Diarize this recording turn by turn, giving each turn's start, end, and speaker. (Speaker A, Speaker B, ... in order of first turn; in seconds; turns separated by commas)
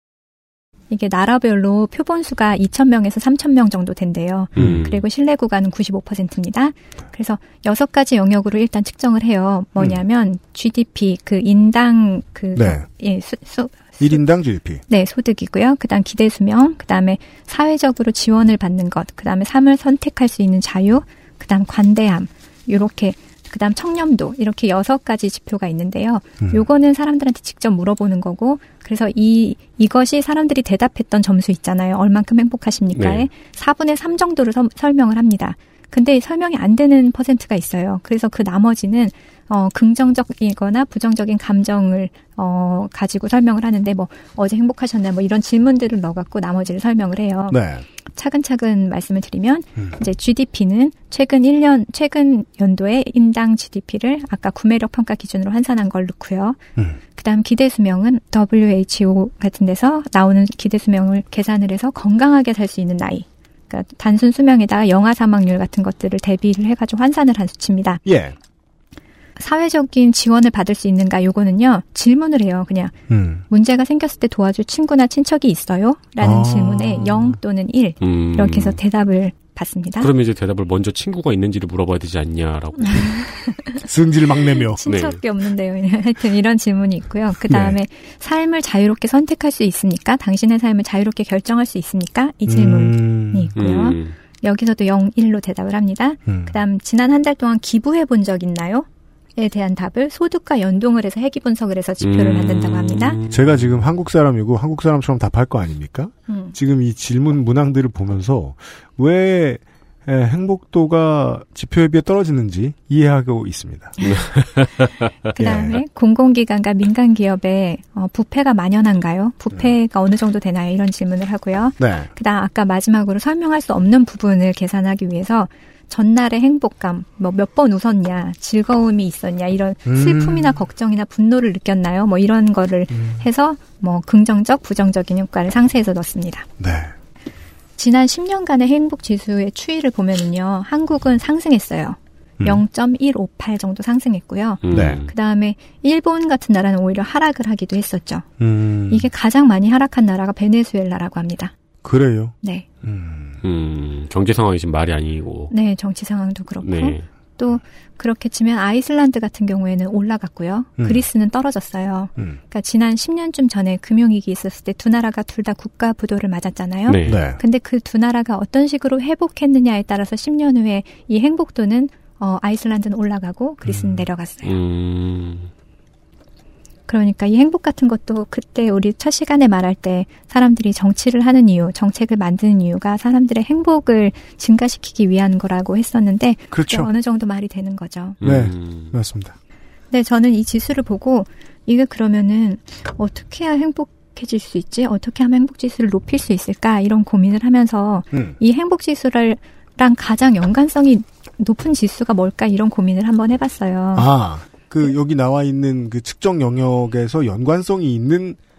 Speaker A: 0.9-14.2, Speaker B: 4.5-5.0, Speaker C: 12.5-12.8, Speaker C: 14.0-14.8, Speaker A: 14.9-47.6, Speaker B: 32.9-33.3, Speaker C: 47.5-47.8, Speaker A: 48.1-56.6, Speaker A: 57.1-68.0, Speaker C: 68.0-68.3, Speaker A: 69.4-72.9, Speaker C: 73.1-73.4, Speaker A: 73.5-80.1, Speaker C: 76.2-77.4, Speaker B: 78.0-78.8, Speaker B: 80.0-83.2, Speaker A: 82.8-83.8, Speaker C: 83.8-84.8, Speaker A: 84.5-98.8, Speaker B: 84.8-85.2, Speaker C: 87.5-87.8, Speaker C: 92.5-93.5, Speaker B: 93.5-94.1, Speaker C: 96.3-96.6, Speaker A: 99.4-103.2, Speaker B: 102.0-103.6, Speaker C: 103.3-114.0, Speaker A: 106.3-106.5, Speaker A: 114.0-114.2, Speaker B: 114.0-115.0, Speaker A: 115.3-136.5, Speaker C: 115.4-115.8, Speaker C: 121.8-122.1, Speaker C: 129.8-130.6, Speaker C: 132.9-133.2, Speaker C: 136.6-136.9, Speaker A: 137.8-148.3, Speaker B: 144.6-145.1, Speaker C: 144.7-145.0, Speaker C: 148.4-149.1, Speaker A: 148.9-151.5, Speaker C: 151.8-153.4, Speaker B: 153.4-155.5, Speaker A: 155.5-174.5, Speaker B: 156.6-157.0, Speaker B: 166.9-167.2, Speaker C: 167.1-167.4, Speaker C: 173.6-174.0, Speaker B: 174.4-175.5, Speaker A: 176.9-188.2, Speaker C: 186.5-186.9, Speaker B: 188.2-188.9, Speaker C: 188.2-189.3, Speaker A: 189.9-204.1, Speaker C: 198.1-198.4, Speaker C: 203.9-208.4